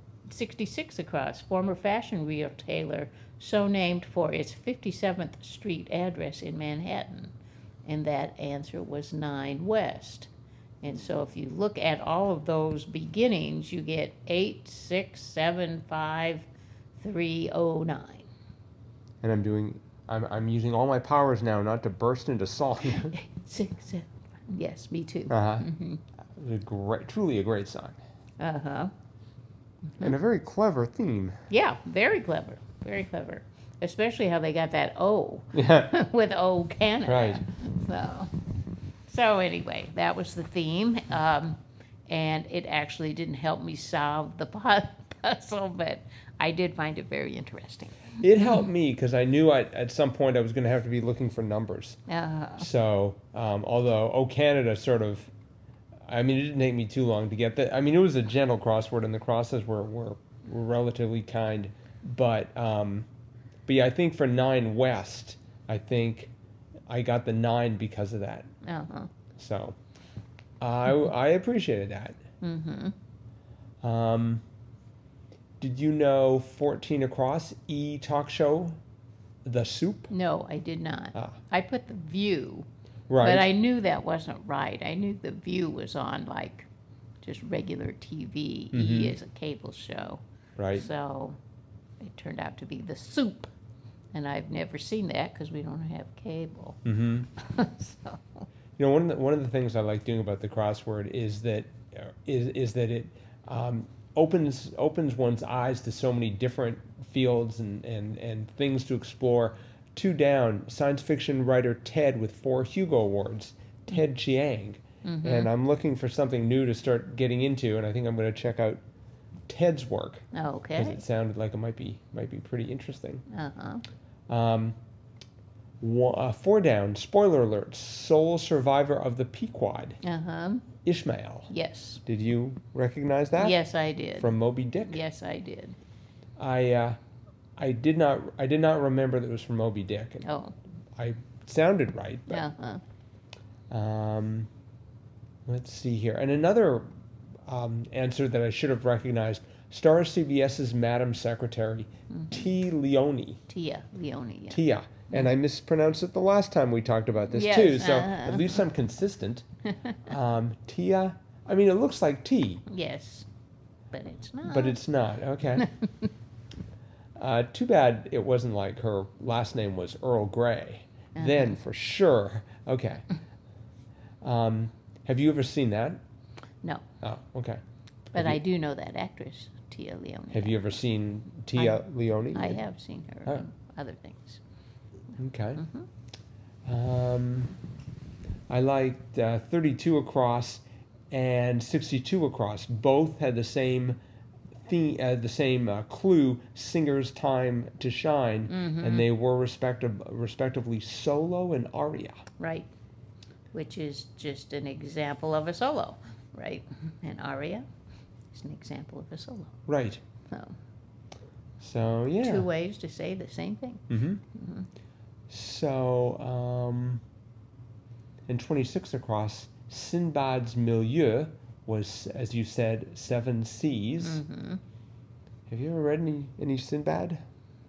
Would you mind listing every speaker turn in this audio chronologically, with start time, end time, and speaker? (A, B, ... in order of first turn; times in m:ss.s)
0:00.3-0:10.3 A
0:10.8-0:16.5 A
0:17.0-0:18.3 A
0:19.2-0:23.2 B
0:22.9-0:26.0 A
0:25.3-0:25.7 B
0:26.4-0:28.0 B
0:28.4-0:28.9 A
0:30.0-0:31.4 B
0:31.5-0:38.3 A
0:35.6-0:35.9 B
0:37.1-0:37.4 B
0:39.1-0:48.0 A
0:48.2-0:52.0 B
0:52.1-0:52.7 A
0:52.6-0:55.3 B
0:56.1-1:03.1 B
1:03.7-1:06.3 B
1:06.9-1:08.5 B
1:08.6-1:09.1 A
1:09.4-1:09.8 B
1:10.6-1:12.2 B
1:12.4-1:13.0 A
1:13.8-1:14.4 B
1:15.6-1:18.8 B
1:19.4-1:20.1 B
1:20.1-1:22.7 A
1:23.1-1:23.5 B
1:23.2-1:26.7 A
1:27.2-1:31.4 A
1:28.7-1:29.2 B
1:30.6-1:30.9 B
1:32.0-1:33.5 A
1:34.1-1:36.8 A
1:36.8-1:37.3 B
1:37.4-1:38.5 A
1:38.8-1:58.8 B
1:55.0-1:55.5 A
1:59.5-2:00.2 B
2:00.3-2:01.0 A
2:00.8-2:03.2 B
2:03.3-2:03.8 A
2:04.3-2:04.8 B
2:05.8-2:10.0 B
2:10.0-2:10.7 A
2:10.8-2:11.5 B
2:11.5-2:12.0 A
2:12.1-2:13.6 B
2:13.4-2:15.8 A
2:14.2-2:15.0 B
2:16.4-2:17.0 B
2:17.6-2:20.3 B
2:20.2-2:20.6 A
2:21.0-2:22.5 B
2:22.3-2:22.8 A
2:23.7-2:24.5 B
2:25.5-2:26.9 B
2:27.4-2:33.4 B
2:32.1-2:32.5 A
2:33.5-2:34.6 A
2:34.5-2:39.5 B
2:37.3-2:38.6 A
2:40.1-2:42.6 B
2:42.7-2:43.3 A
2:43.9-2:44.8 A
2:44.4-2:45.7 B
2:45.6-2:46.1 A
2:47.2-2:53.1 B
2:51.2-2:51.6 A
2:54.2-2:56.0 B
2:57.0-2:57.6 B
2:58.1-3:00.7 A
2:58.1-2:58.4 B
3:00.3-3:02.6 B
3:02.3-3:04.4 A
3:05.2-3:05.6 B
3:05.6-3:05.9 A
3:06.7-3:07.5 B
3:08.5-3:14.0 B
3:14.6-3:22.2 B
3:18.5-3:19.1 A
3:22.4-3:22.7 A
3:23.5-3:27.7 A
3:28.3-3:29.6 A
3:29.7-3:30.0 B
3:30.3-3:30.6 A
3:31.6-3:32.5 B
3:32.2-3:34.7 A
3:33.9-3:34.2 B
3:35.3-3:37.0 B
3:38.3-3:44.2 B
3:44.0-3:44.6 A
3:45.5-3:47.2 B